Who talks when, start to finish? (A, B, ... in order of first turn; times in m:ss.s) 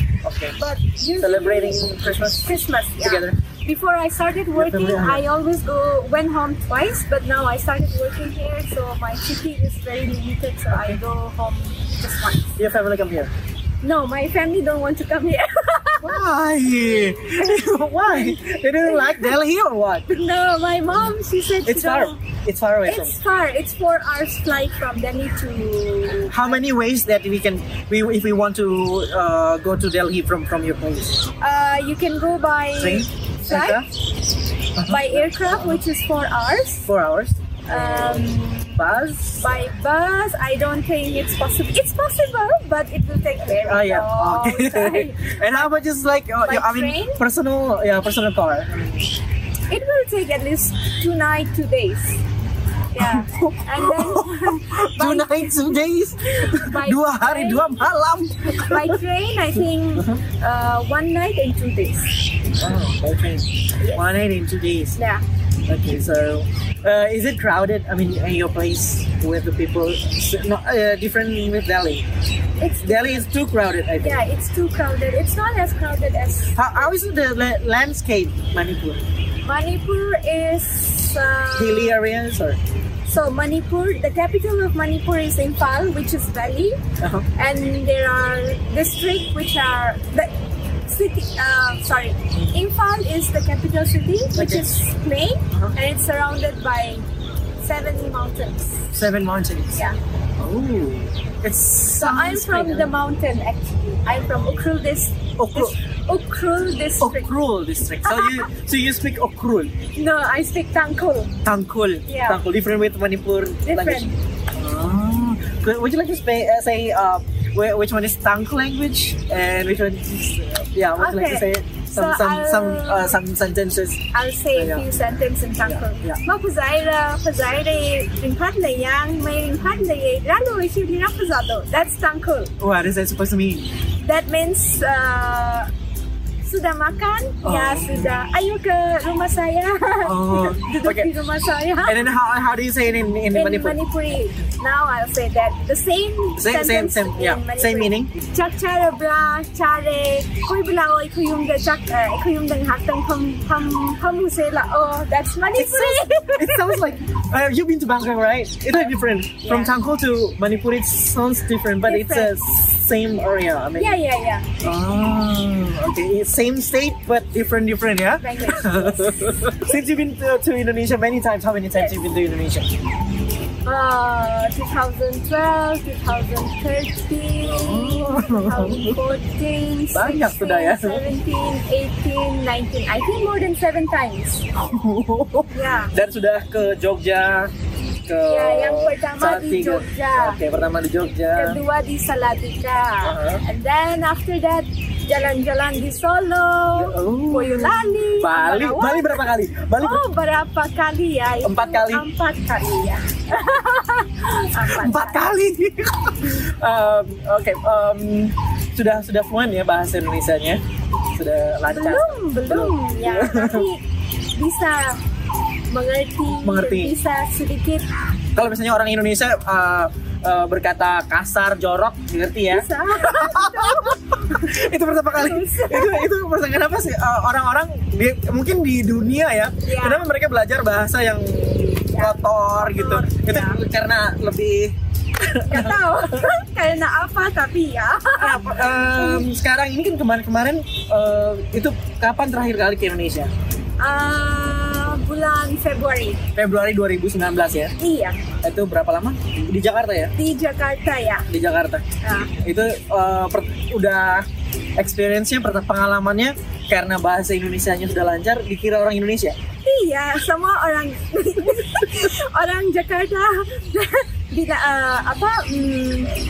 0:00.2-0:00.6 A
0:00.6-0:12.6 B
0:01.2-0:03.4 A
0:04.5-0:05.2 A
0:10.7-0:11.0 A
0:12.6-0:13.3 A
0:13.8-0:19.3 B
0:16.0-0:20.1 A
0:20.1-0:22.2 B
0:20.9-0:23.1 A
0:22.8-0:26.6 B
0:26.3-0:31.2 A
0:31.4-0:33.8 B
0:32.8-0:33.9 A
0:34.8-0:35.8 A
0:34.8-0:36.9 B
0:36.9-0:39.5 A
0:37.7-0:38.8 B
0:39.4-0:45.7 B
0:43.5-0:49.1 A
0:46.4-0:47.2 B
0:49.7-0:52.2 B
0:52.9-0:57.8 B
0:53.0-0:59.0 A
0:58.5-1:02.1 B
1:00.0-1:00.2 A
1:02.6-1:05.0 A
1:05.0-1:05.2 B
1:05.7-1:12.0 A
1:12.6-1:13.2 B
1:12.8-1:14.2 A
1:14.0-1:16.9 B
1:16.5-1:19.0 A
1:19.4-1:22.0 B
1:21.6-1:22.6 A
1:23.1-1:26.8 B
1:27.0-1:27.2 A
1:27.4-1:30.3 B
1:30.8-1:37.0 B
1:34.3-1:34.7 A
1:37.6-1:38.9 B
1:38.9-1:39.8 A
1:40.4-1:42.9 A
1:41.9-1:47.4 B
1:45.4-1:45.7 A
1:47.0-1:49.7 A
1:48.0-1:48.5 B
1:49.9-1:51.3 B
1:51.4-2:04.8 A
1:52.0-1:52.4 B
1:53.6-1:54.2 B
2:01.0-2:03.2 B
2:04.1-2:12.5 B
2:05.6-2:06.2 A
2:12.6-2:13.7 A
2:14.0-2:15.7 B
2:16.4-2:22.1 B
2:17.4-2:18.1 A
2:20.0-2:21.1 A
2:21.8-2:23.8 A
2:23.3-2:36.8 B
2:26.4-2:28.1 A
2:35.5-2:44.0 A
2:39.4-2:39.7 B
2:41.8-2:42.4 B
2:43.8-2:44.5 B
2:44.6-2:52.7 A
2:48.2-2:49.2 B
2:53.6-3:04.4 B
2:57.4-2:59.0 A
2:59.9-3:01.0 A
3:04.6-3:07.5 A
3:05.5-3:05.9 B
3:08.1-3:11.6 A
3:08.2-3:10.4 B
3:11.3-3:19.2 B
3:13.0-3:13.4 A
3:16.8-3:20.0 A
3:19.8-3:25.3 B
3:21.4-3:22.1 A
3:24.6-3:30.6 A
3:31.1-3:33.7 A
3:31.7-3:33.8 B
3:34.4-3:35.0 B
3:35.7-3:37.9 B
3:36.4-3:36.9 A
3:38.4-3:56.3 A
3:42.5-3:44.4 B
3:45.1-3:46.1 B
3:49.6-3:50.0 B
3:51.9-3:53.6 B
3:55.5-3:59.2 B
3:58.2-4:03.3 A
4:03.8-4:06.2 B
4:06.4-4:07.7 A
4:07.8-4:08.2 B
4:08.4-4:10.1 A
4:10.2-4:11.3 B
4:11.3-4:11.8 A
4:12.0-4:12.3 B
4:12.4-4:14.2 A
4:14.8-4:19.4 A
4:19.6-4:26.2 B